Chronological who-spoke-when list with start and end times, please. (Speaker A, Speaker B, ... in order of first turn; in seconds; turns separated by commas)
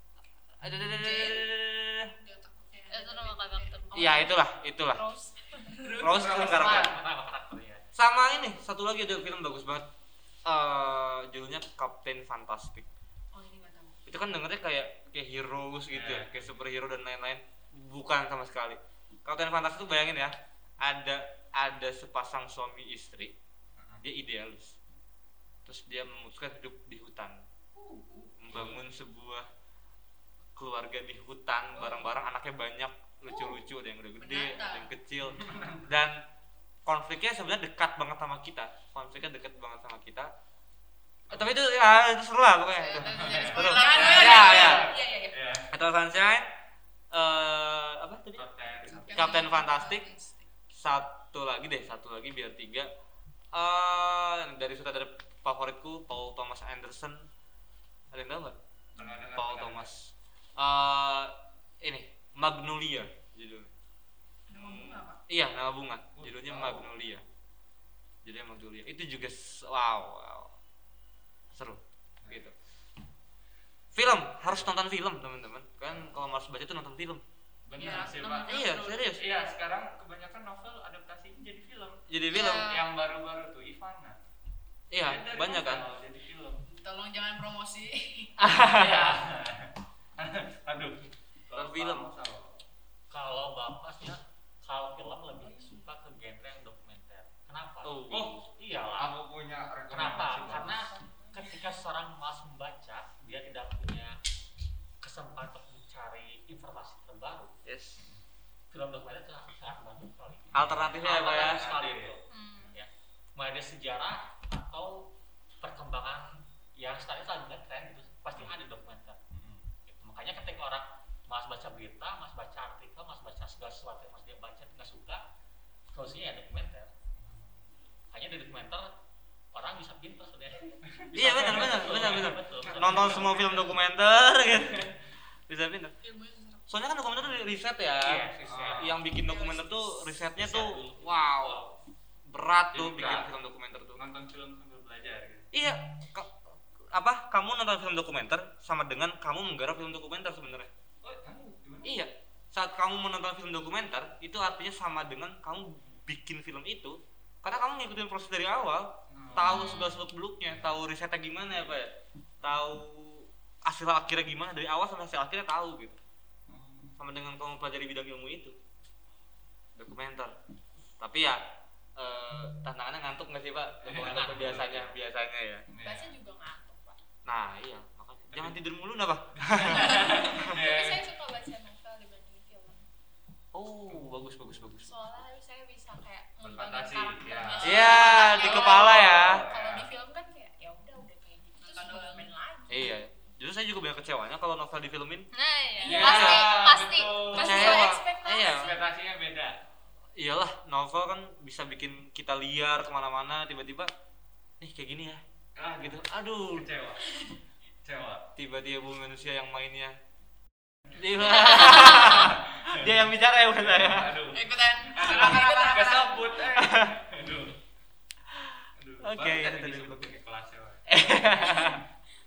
Speaker A: 0.6-2.1, Speaker B: 0.9-1.5, Speaker B: 2.2-4.3, Speaker C: 2.9-4.2, Speaker A: 3.9-5.0, Speaker D: 4.9-5.7, Speaker E: 5.8-7.0, Speaker A: 6.0-6.9, Speaker F: 6.1-7.8, Speaker A: 7.9-9.9, Speaker A: 10.4-12.9, Speaker B: 13.3-14.0, Speaker A: 14.1-23.3, Speaker E: 15.9-16.4, Speaker A: 24.0-24.8, Speaker A: 25.6-27.4, Speaker B: 27.7-28.3, Speaker A: 28.4-29.5, Speaker E: 28.5-28.8, Speaker A: 30.6-36.2, Speaker B: 33.3-33.5, Speaker B: 34.2-34.9, Speaker E: 35.3-35.9, Speaker A: 36.8-40.3, Speaker A: 41.3-44.9, Speaker B: 42.9-45.4, Speaker E: 43.0-45.7, Speaker D: 43.1-44.2, Speaker A: 45.7-46.5, Speaker A: 47.1-48.4, Speaker E: 48.4-49.4, Speaker B: 48.9-50.4, Speaker A: 49.1-50.1, Speaker A: 50.7-52.9, Speaker A: 53.5-57.2, Speaker A: 58.1-58.5, Speaker E: 59.0-59.9, Speaker A: 59.4-63.7, Speaker B: 64.5-65.2, Speaker A: 64.5-67.2, Speaker E: 66.1-67.0, Speaker A: 68.2-70.5, Speaker A: 71.5-72.5, Speaker E: 72.2-72.5, Speaker A: 73.9-77.2, Speaker E: 77.7-78.5, Speaker B: 77.8-78.9, Speaker A: 78.4-79.2, Speaker E: 79.2-82.0, Speaker A: 82.1-82.8, Speaker C: 82.3-82.8, Speaker E: 82.7-84.2, Speaker A: 84.9-85.8, Speaker E: 85.0-86.6, Speaker B: 86.7-88.3, Speaker A: 88.4-89.2, Speaker E: 88.7-92.6, Speaker A: 91.5-92.0, Speaker F: 93.1-99.2, Speaker A: 97.8-98.4, Speaker E: 98.1-98.4, Speaker E: 98.9-101.0, Speaker F: 99.9-104.2, Speaker F: 105.0-107.5, Speaker A: 107.7-108.0, Speaker E: 108.0-108.2, Speaker F: 108.7-119.2, Speaker E: 110.5-112.7, Speaker A: 110.5-111.7, Speaker C: 112.3-112.7, Speaker E: 118.3-118.6, Speaker E: 119.3-119.7, Speaker F: 119.9-125.2, Speaker F: 125.9-126.9, Speaker E: 127.2-127.7, Speaker F: 128.1-128.9, Speaker F: 129.5-133.8, Speaker E: 131.0-133.5, Speaker A: 131.1-134.9, Speaker A: 135.5-135.9, Speaker B: 136.0-136.6, Speaker A: 136.7-141.7, Speaker F: 138.0-139.1, Speaker E: 138.4-139.0, Speaker E: 140.4-141.4, Speaker F: 140.6-141.6, Speaker A: 142.3-144.0, Speaker E: 142.7-143.3, Speaker E: 143.9-145.5, Speaker A: 145.5-146.3, Speaker A: 146.9-150.7, Speaker E: 151.0-152.0, Speaker A: 151.8-161.9, Speaker E: 159.1-159.7, Speaker C: 159.4-160.0, Speaker A: 162.4-166.0, Speaker E: 166.5-167.0, Speaker A: 167.0-168.6, Speaker A: 169.8-170.3, Speaker A: 171.0-171.4, Speaker A: 172.0-175.6, Speaker E: 173.8-174.9, Speaker F: 174.0-174.7, Speaker E: 175.7-176.1, Speaker D: 175.8-177.0, Speaker A: 177.2-180.6, Speaker E: 178.3-178.6, Speaker E: 179.5-181.0, Speaker D: 180.4-182.8, Speaker A: 183.5-184.9, Speaker D: 184.8-192.8, Speaker E: 186.4-189.9, Speaker A: 187.6-189.4, Speaker B: 191.7-192.3, Speaker A: 192.7-195.3, Speaker C: 195.3-197.9, Speaker D: 195.8-196.4, Speaker E: 195.8-197.8, Speaker A: 195.8-196.5, Speaker A: 197.3-198.8, Speaker D: 197.3-198.8, Speaker E: 198.5-199.6, Speaker A: 200.2-203.9, Speaker A: 204.6-205.2, Speaker E: 205.6-207.3, Speaker A: 205.8-206.7, Speaker E: 207.8-208.3, Speaker A: 208.4-209.9, Speaker A: 210.9-214.2, Speaker C: 211.2-212.3, Speaker E: 212.2-213.0, Speaker E: 213.5-217.6, Speaker B: 214.3-216.3, Speaker A: 216.5-216.9, Speaker A: 218.3-220.2, Speaker E: 218.8-221.7, Speaker A: 220.9-221.8